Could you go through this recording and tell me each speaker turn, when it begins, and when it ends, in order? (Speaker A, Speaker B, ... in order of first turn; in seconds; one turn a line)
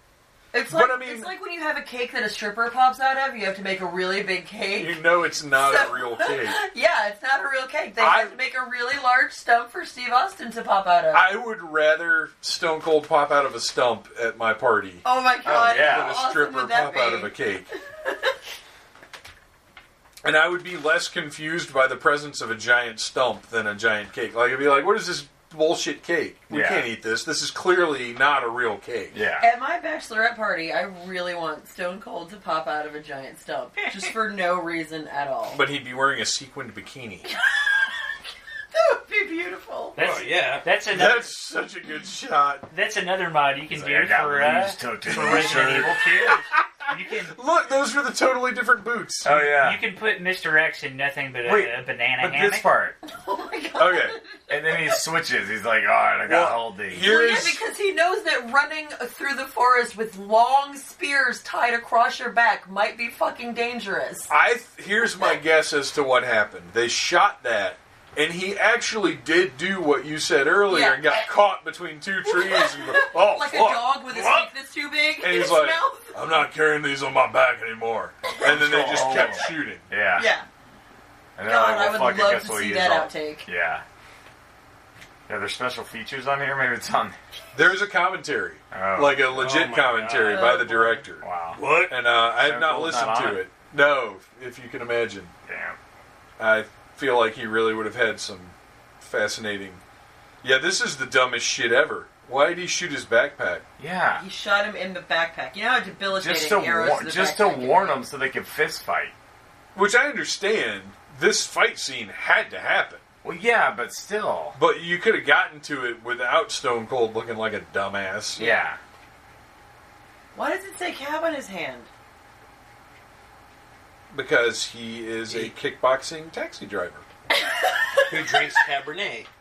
Speaker A: 0.5-11.3
Speaker B: 0.7-1.3
Speaker B: 4.7-6.6
Speaker B: 8.0-8.3
Speaker B: 11.1-17.7
Speaker A: 15.0-17.3
Speaker C: 15.4-16.1
Speaker A: 18.0-18.3
Speaker B: 20.2-29.2
Speaker C: 26.5-26.9
Speaker C: 29.1-29.5
Speaker A: 29.4-35.6
Speaker D: 33.8-34.1
Speaker B: 35.5-37.3
Speaker A: 37.3-38.0
Speaker A: 38.7-40.0
Speaker D: 39.9-41.3
Speaker E: 40.0-40.6
Speaker B: 40.9-42.6
Speaker D: 42.7-47.4
Speaker C: 43.7-46.0
Speaker B: 45.2-45.6
Speaker B: 47.2-49.4
Speaker C: 49.2-49.8
Speaker D: 49.3-52.7
Speaker C: 51.4-53.0
Speaker A: 53.0-54.7
Speaker B: 53.8-54.2
Speaker C: 54.5-57.1
Speaker B: 56.2-57.6
Speaker A: 57.0-64.3
Speaker B: 64.3-74.3
Speaker A: 70.7-71.3
Speaker A: 72.2-76.4
Speaker E: 74.1-74.4
Speaker B: 75.2-79.9
Speaker C: 78.4-80.3
Speaker A: 80.2-80.5
Speaker C: 81.4-83.8
Speaker A: 81.4-83.5
Speaker C: 85.3-87.2
Speaker B: 87.5-91.2
Speaker C: 88.7-89.4
Speaker E: 89.3-90.5
Speaker A: 90.2-91.0
Speaker C: 91.2-91.6
Speaker E: 91.5-91.9
Speaker B: 91.9-95.3
Speaker C: 92.4-93.4
Speaker C: 95.5-95.8
Speaker B: 96.4-99.8
Speaker B: 100.4-103.6
Speaker C: 103.8-104.2
Speaker A: 104.2-108.0
Speaker C: 106.1-109.1
Speaker B: 109.7-113.0
Speaker C: 113.2-114.6
Speaker B: 114.5-118.4
Speaker C: 118.3-118.8
Speaker A: 118.4-118.6
Speaker A: 120.3-121.9
Speaker B: 124.1-127.0
Speaker A: 127.5-128.3
Speaker E: 128.1-129.3